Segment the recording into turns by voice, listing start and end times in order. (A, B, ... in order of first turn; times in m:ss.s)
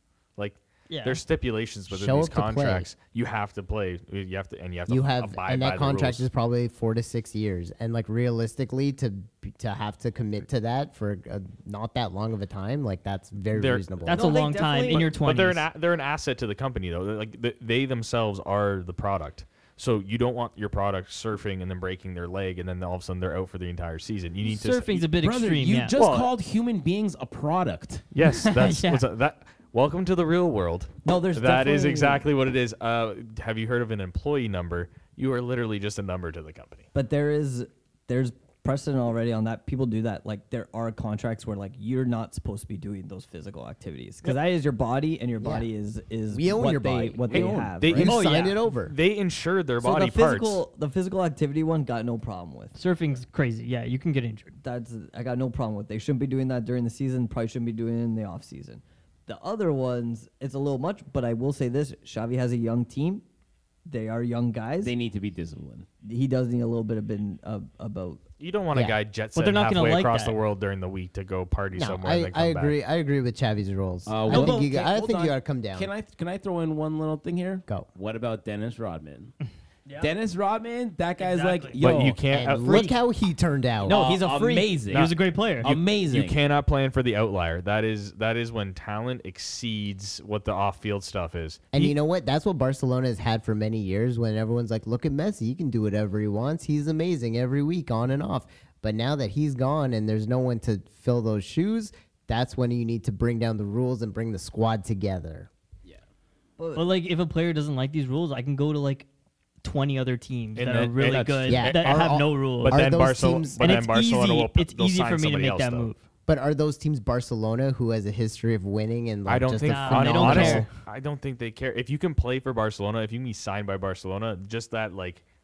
0:00.4-0:06.2 A
0:00.9-0:01.2 B
0:01.9-0:02.9 C
0:04.9-0:14.2 C
0:13.5-0:14.0 A
0:14.1-0:15.6 B
0:14.1-0:15.0 D
0:14.9-0:25.0 A
0:24.4-0:28.0 E
0:24.9-0:25.9 B
0:25.9-0:26.3 A
0:28.1-0:36.8 A
0:28.4-0:29.0 B
0:31.0-0:32.2 D
0:36.9-0:48.3 D
0:45.4-0:45.7 C
0:46.3-0:49.0 C
0:47.3-0:47.7 E
0:47.3-0:50.6 A
0:48.1-0:48.5 B
0:49.8-0:52.8 D
0:52.7-0:54.5 B
0:54.6-1:03.2 D
1:03.8-1:04.9 D
1:04.8-1:05.9 E
1:06.0-1:08.2 D
1:08.4-1:12.8 A
1:08.7-1:09.0 C
1:09.3-1:10.4 B
1:11.7-1:15.9 C
1:14.0-1:19.3 E
1:14.3-1:14.6 B
1:20.0-1:22.2 E
1:21.2-1:22.0 B
1:21.8-1:22.9 A
1:22.3-1:24.0 C
1:23.8-1:26.4 E
1:23.9-1:24.7 D
1:24.2-1:25.8 B
1:24.9-1:32.0 A
1:31.7-1:45.5 C
1:46.6-1:46.9 D
1:46.8-1:49.1 B
1:49.6-1:53.0 B
1:50.6-1:55.9 A
1:51.0-1:51.6 E
1:51.5-1:53.9 C
1:53.6-1:56.0 B
1:56.3-2:00.7 C
1:59.3-2:05.2 A
1:59.7-2:00.7 B